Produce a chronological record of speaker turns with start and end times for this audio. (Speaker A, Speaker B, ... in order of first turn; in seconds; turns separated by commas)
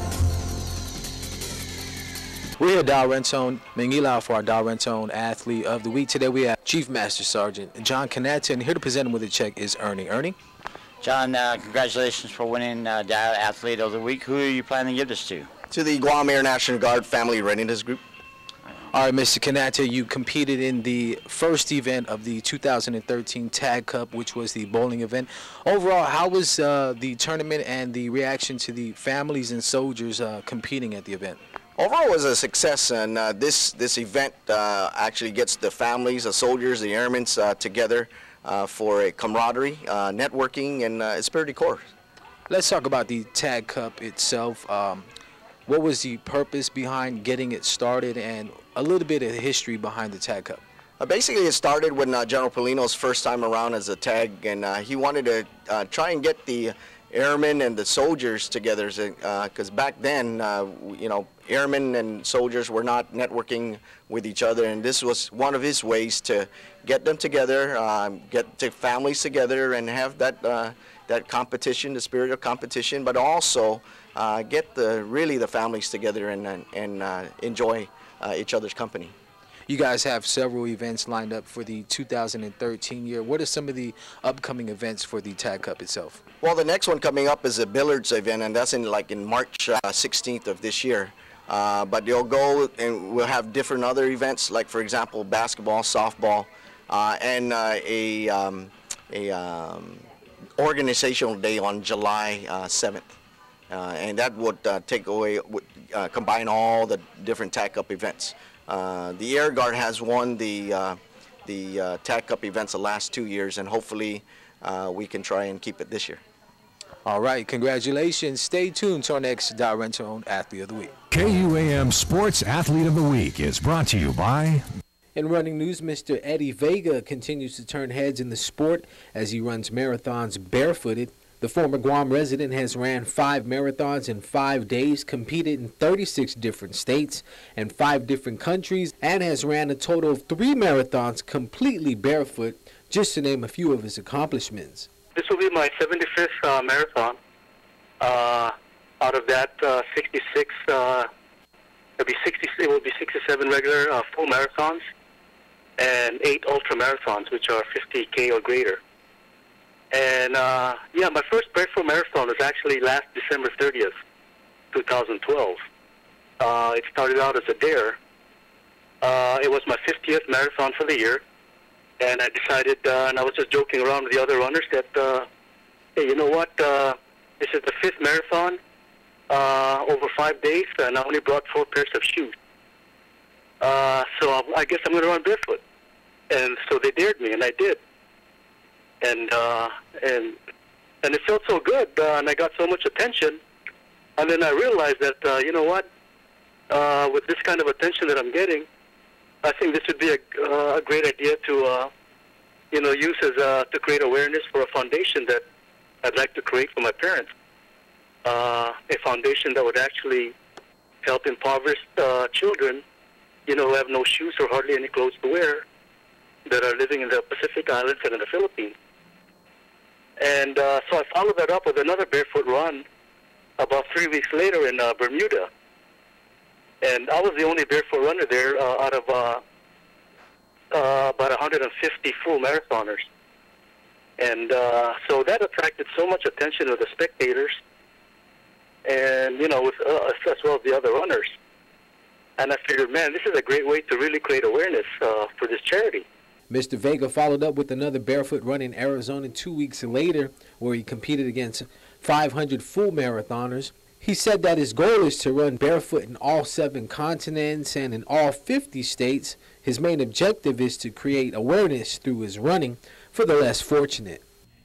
Speaker A: 2.6-10.4, Speaker B: 11.0-15.5, Speaker C: 15.7-18.0, Speaker A: 18.9-31.4, Speaker C: 31.8-41.8, Speaker A: 42.5-45.1, Speaker A: 45.7-50.6, Speaker C: 51.0-79.1, Speaker A: 79.7-86.2, Speaker C: 86.4-100.0, Speaker C: 100.6-103.1, Speaker C: 103.7-116.2, Speaker A: 117.0-121.0, Speaker D: 121.1-124.6, Speaker A: 125.2-144.9, Speaker E: 145.2-147.2, Speaker E: 148.0-151.1, Speaker E: 152.0-154.8, Speaker E: 155.8-158.8, Speaker E: 159.9-163.9, Speaker E: 164.7-165.6, Speaker E: 166.4-168.0, Speaker E: 169.0-171.2, Speaker E: 172.0-175.3, Speaker E: 176.0-178.6, Speaker E: 179.3-182.3, Speaker E: 183.6-185.6, Speaker E: 186.3-187.8, Speaker E: 189.0-190.4, Speaker E: 191.0-193.4, Speaker E: 194.2-195.8, Speaker E: 196.7-198.7, Speaker E: 199.4-201.9, Speaker E: 202.7-205.4, Speaker E: 206.0-207.3, Speaker E: 208.2-210.3, Speaker E: 211.0-212.8, Speaker E: 213.5-215.6, Speaker E: 216.5-218.8, Speaker E: 220.2-222.8, Speaker E: 223.6-225.5, Speaker E: 226.8-229.4, Speaker E: 230.7-233.1, Speaker E: 234.2-237.6, Speaker E: 238.9-241.3, Speaker E: 242.4-246.1, Speaker A: 246.5-264.2